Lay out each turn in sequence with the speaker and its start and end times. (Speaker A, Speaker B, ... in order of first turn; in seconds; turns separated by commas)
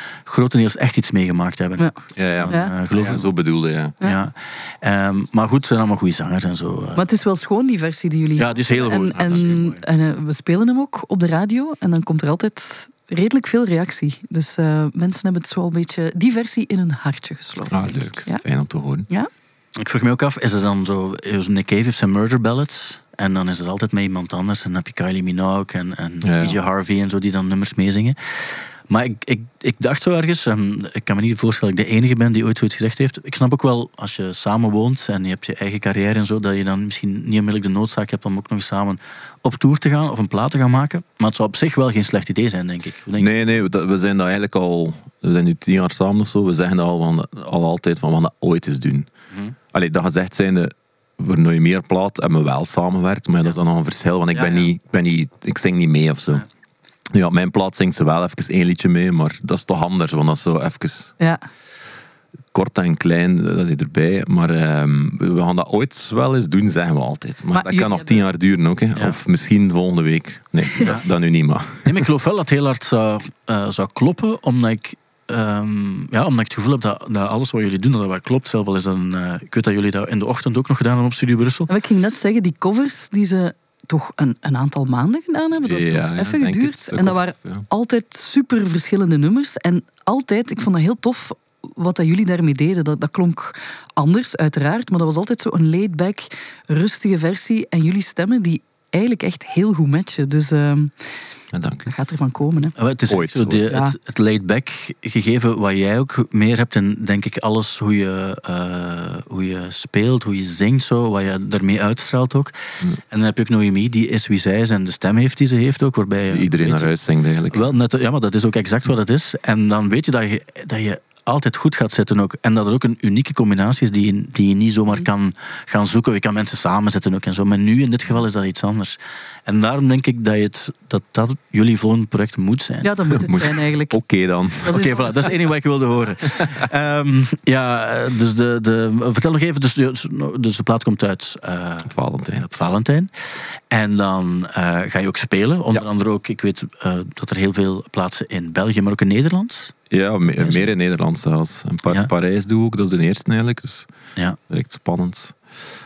Speaker A: 0.2-3.3, Speaker B: 2.1-4.0, Speaker C: 2.5-2.7, Speaker A: 4.0-7.0, Speaker C: 6.9-18.4, Speaker A: 8.4-9.8, Speaker B: 9.1-9.6, Speaker B: 17.7-19.1, Speaker A: 19.8-43.3, Speaker B: 26.2-26.6, Speaker B: 43.1-49.1, Speaker B: 49.7-56.5, Speaker A: 54.3-54.7, Speaker B: 57.1-61.1, Speaker B: 62.5-72.0, Speaker C: 67.5-68.2, Speaker A: 70.8-71.0, Speaker A: 71.8-81.7, Speaker C: 81.7-100.9, Speaker B: 85.6-87.7, Speaker B: 101.5-101.9, Speaker C: 101.8-102.7, Speaker A: 102.8-112.5, Speaker B: 103.1-103.7, Speaker C: 103.7-103.9, Speaker A: 113.1-116.9, Speaker B: 116.3-117.7, Speaker A: 117.5-133.0, Speaker C: 132.8-134.0, Speaker B: 133.1-134.8, Speaker C: 134.6-135.4, Speaker A: 134.7-149.7, Speaker B: 141.9-142.4, Speaker B: 149.9-153.9, Speaker A: 150.4-150.7, Speaker B: 154.5-155.3